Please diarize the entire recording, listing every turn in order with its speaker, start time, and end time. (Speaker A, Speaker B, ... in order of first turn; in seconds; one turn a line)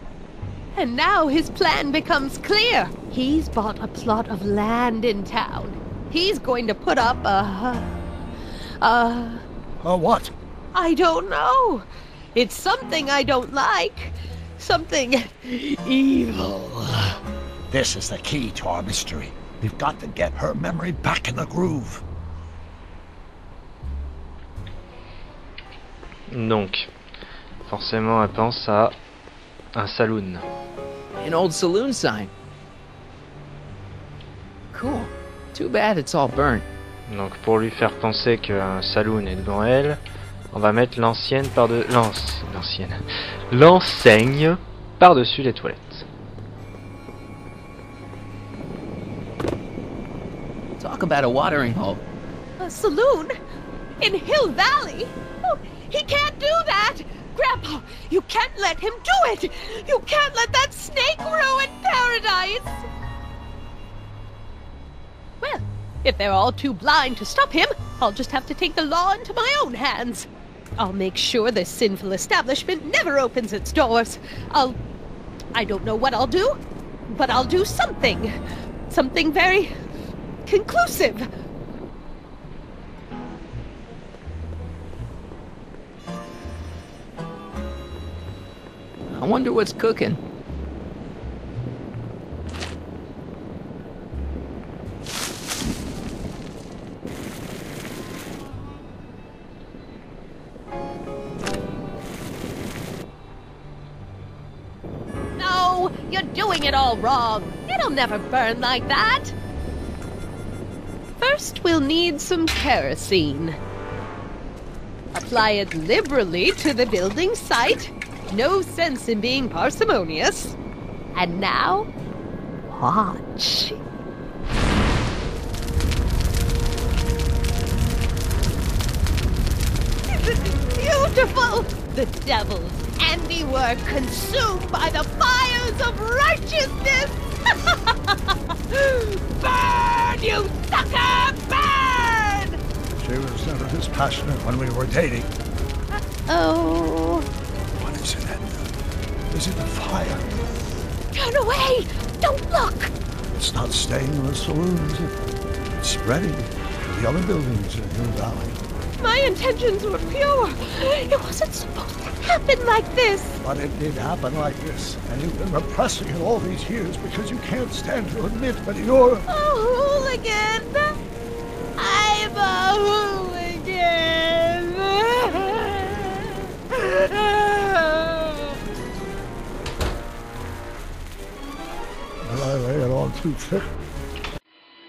Speaker A: 0.7-7.9
Speaker A: 8.8-9.4
Speaker B: 9.8-10.3
Speaker A: 10.7-17.1
Speaker B: 17.7-22.0
Speaker C: 26.3-26.9
Speaker C: 27.7-28.9
Speaker C: 29.8-30.4
Speaker D: 31.2-32.3
Speaker D: 34.7-36.6
Speaker C: 37.1-40.0
Speaker C: 40.5-43.0
Speaker C: 43.5-46.1
Speaker D: 50.8-52.0
Speaker A: 52.6-53.3
Speaker A: 54.0-62.8
Speaker A: 65.4-74.8
Speaker A: 75.5-78.3
Speaker A: 78.9-79.7
Speaker A: 80.5-81.3
Speaker D: 89.1-90.2
Speaker A: 105.4-109.3
Speaker A: 111.2-113.6
Speaker A: 115.1-120.6
Speaker A: 121.2-121.9
Speaker A: 122.7-123.8
Speaker A: 130.1-142.6
Speaker B: 143.0-145.3
Speaker A: 146.3-147.3
Speaker B: 147.7-148.7
Speaker B: 149.3-150.3
Speaker A: 151.1-152.9
Speaker B: 153.4-155.2
Speaker B: 155.8-158.6
Speaker A: 159.0-163.4
Speaker B: 163.4-169.3
Speaker A: 169.3-170.9
Speaker A: 171.8-178.4
Speaker B: 182.2-183.7